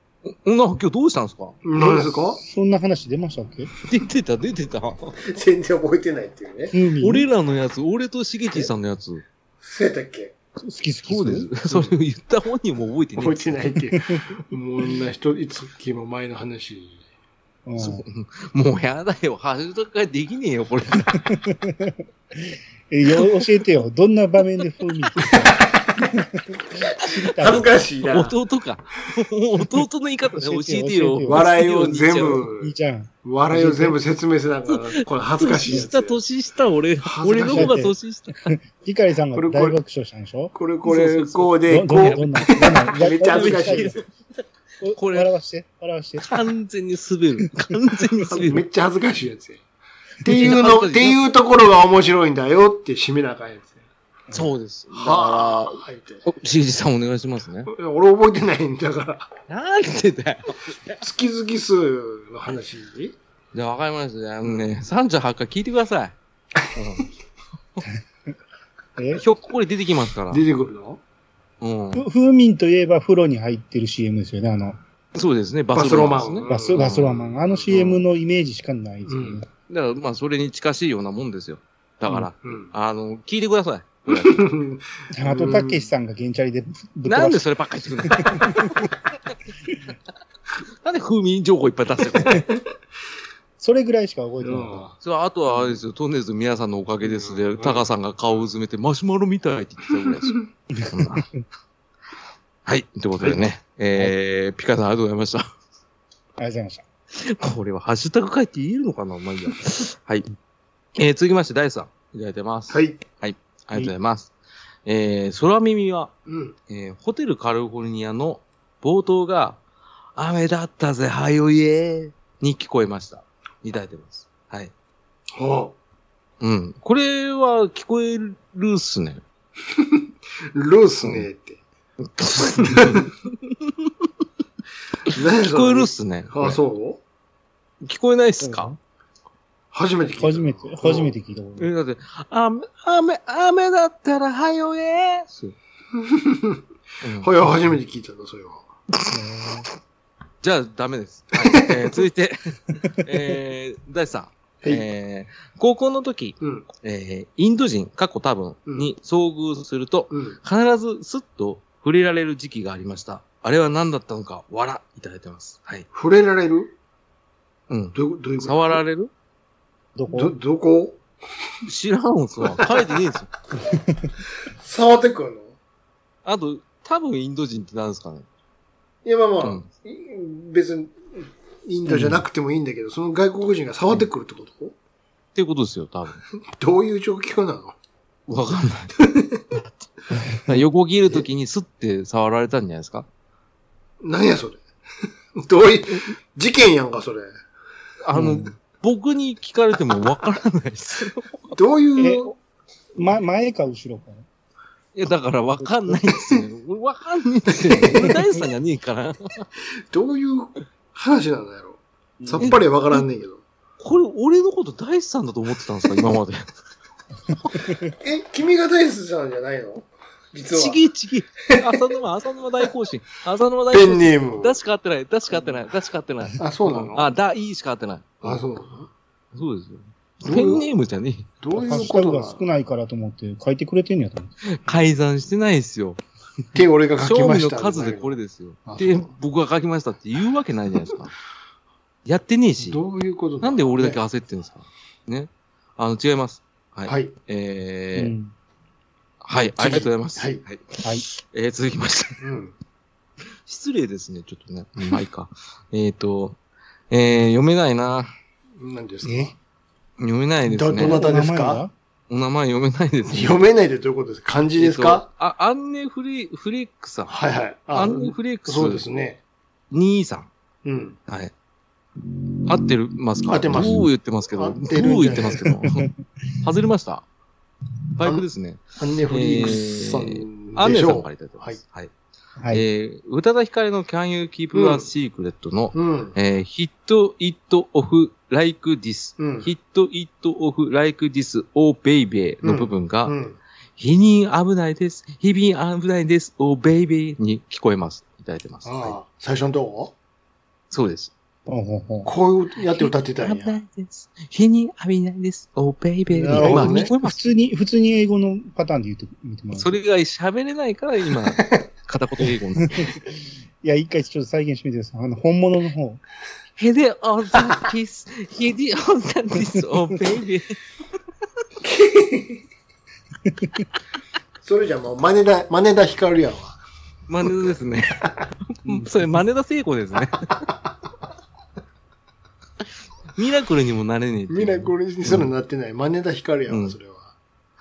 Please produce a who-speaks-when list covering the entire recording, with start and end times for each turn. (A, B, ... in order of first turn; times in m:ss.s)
0:00.2-0:01.6 A
0:01.6-0:02.4 B
0:01.8-0:03.7 C
0:03.8-0:05.2 A
0:05.3-0:06.7 B
0:06.7-0:07.3 C
0:07.0-0:09.2 A
0:09.6-0:10.3 B
0:10.6-0:11.5 C
0:11.0-0:13.5 A
0:11.7-0:11.9 B
0:13.2-0:17.0 B
0:13.9-0:14.3 C
0:17.6-0:18.0 C
0:17.8-0:21.2 A
0:21.2-0:25.6 C
0:25.2-0:25.5 A
0:25.6-0:26.1 B
0:26.1-0:27.7 C
0:27.4-0:28.3 B
0:28.0-0:32.5 A
0:30.4-0:31.5 C
0:31.3-0:32.7 B
0:32.6-0:34.0 C
0:33.2-0:36.2 B
0:34.7-0:38.5 A
0:37.0-0:37.8 B
0:37.5-0:37.9 C
0:38.5-0:40.5 C
0:39.3-0:39.8 B
0:40.5-0:42.2 B
0:40.8-0:44.1 A
0:41.7-0:44.0 C
0:42.9-0:44.0 B
0:44.8-0:46.4 C
0:44.9-0:45.3 A
0:46.2-0:48.6 A
0:48.3-0:49.6 B
0:50.2-0:53.8 B
0:50.3-0:51.2 A
0:54.3-0:57.7 A
0:54.9-0:56.2 B
0:57.7-0:59.3 B
0:59.5-1:01.0 A
1:01.0-1:03.2 B
1:03.5-1:06.2 A
1:06.7-1:07.1 A
1:09.0-1:09.2 C
1:09.1-1:10.4 A
1:10.3-1:11.0 B
1:11.6-1:12.0 A
1:11.9-1:14.8 C
1:15.1-1:18.0 A
1:15.7-1:17.6 B
1:16.5-1:19.4 C
1:19.1-1:19.4 B
1:19.7-1:24.5 A
1:22.4-1:22.7 B
1:24.1-1:25.9 B
1:25.1-1:27.4 C
1:27.0-1:28.9 A
1:28.1-1:28.9 C
1:30.8-1:32.5 A
1:33.6-1:34.9 C
1:34.4-1:35.0 B
1:35.0-1:41.3 A
1:37.0-1:37.8 B
1:40.8-1:41.4 C
1:42.6-1:45.5 A
1:46.4-1:46.8 C
1:47.2-1:50.3 A
1:51.0-1:54.3 A
1:52.7-1:53.0 B
1:54.8-1:56.1 A
1:56.2-1:56.5 B
1:56.7-1:59.6 A
2:00.2-2:04.7 A
2:05.3-2:05.7 B
2:06.4-2:09.2 A
2:10.5-2:11.6 B
2:12.0-2:14.1 A
2:12.6-2:13.1 B
2:15.1-2:17.0 B
2:15.1-2:16.6 A
2:17.8-2:18.7 A
2:18.4-2:18.8 C
2:19.7-2:21.1 B
2:20.2-2:21.7 C
2:21.6-2:25.5 A
2:26.0-2:26.6 B
2:27.0-2:27.3 A
2:27.2-2:28.6 B
2:29.1-2:29.6 C
2:30.4-2:45.9 A
2:31.3-2:31.8 B
2:34.6-2:34.9 B
2:36.4-2:36.6 B
2:40.1-2:40.4 B
2:45.9-2:46.7 B
2:47.7-2:49.1 A
2:47.9-2:48.8 B
2:50.0-2:50.3 C
2:50.1-2:51.0 B
2:51.7-2:53.3 A
2:52.4-2:52.8 B
2:53.7-2:54.1 C
2:54.5-2:55.5 B
2:56.2-2:58.3 A
2:59.0-3:01.0 B
2:59.4-2:59.7 A
3:01.6-3:04.7 B
3:01.8-3:02.2 C
3:05.3-3:06.2 A
3:06.6-3:07.8 B
3:08.3-3:09.0 A
3:09.1-3:09.4 B
3:10.2-3:13.1 A
3:14.0-3:14.6 B
3:15.4-3:17.3 B
3:18.0-3:21.3 A
3:18.1-3:18.5 C
3:21.6-3:22.3 B
3:22.0-3:22.3 C
3:23.0-3:24.2 C
3:24.9-3:29.5 A
3:25.6-3:25.9 C
3:29.9-3:33.4 B
3:32.2-3:32.6 C
3:32.4-3:33.0 A
3:33.8-3:36.4 A
3:37.3-3:37.6 A
3:37.6-3:37.9 C
3:38.0-3:40.8 B
3:40.5-3:48.4 A
3:41.5-3:41.8 B
3:43.7-3:44.6 B
3:46.4-3:47.1 B
3:48.2-3:48.9 B
3:49.3-3:51.3 A
3:50.2-3:50.6 B
3:51.4-3:52.4 B
3:51.5-3:54.3 C
3:54.4-3:56.0 A
3:56.5-3:59.1 B
3:57.0-4:01.1 A
4:02.0-4:02.8 A
4:02.6-4:04.0 B
4:03.4-4:08.1 A
4:06.8-4:07.1 B
4:07.9-4:08.3 C
4:09.2-4:12.2 A
4:09.6-4:10.4 B
4:12.2-4:12.5 B
4:13.4-4:16.4 A
4:16.9-4:18.1 A
4:18.6-4:19.4 B
4:19.0-4:19.3 C
4:20.0-4:21.0 A
4:20.5-4:21.6 B
4:20.8-4:21.7 C
4:22.1-4:23.4 A
4:23.1-4:25.1 B
4:24.6-4:27.2 A
4:27.1-4:29.2 B
4:27.7-4:28.8 A
4:29.7-4:30.3 A
4:30.6-4:31.0 B
4:31.1-4:31.3 A
4:32.5-4:35.9 A
4:33.2-4:35.5 B
4:36.4-4:37.0 A
4:38.0-4:41.9 A
4:38.8-4:41.6 B
4:42.4-4:42.6 C
4:42.5-4:53.1 A
4:44.5-4:44.9 B
4:45.7-4:46.2 B
4:49.2-4:49.5 B
4:52.4-4:53.4 B
4:53.8-4:59.0 A
4:58.6-4:59.9 B
5:00.7-5:01.1 A
5:01.5-5:02.1 C
5:02.0-5:03.6 B
5:02.6-5:07.3 A
5:06.1-5:06.9 B
5:06.3-5:09.7 C
5:09.5-5:12.9 A
5:12.6-5:13.0 C
5:13.6-5:16.0 C
5:16.6-5:20.6 A
5:21.6-5:22.4 B
5:23.2-5:23.6 C
5:24.4-5:26.6 B
5:27.1-5:28.0 A
5:28.6-5:30.3 A
5:33.2-5:35.3 A
5:34.3-5:37.1 B
5:36.5-5:36.8 A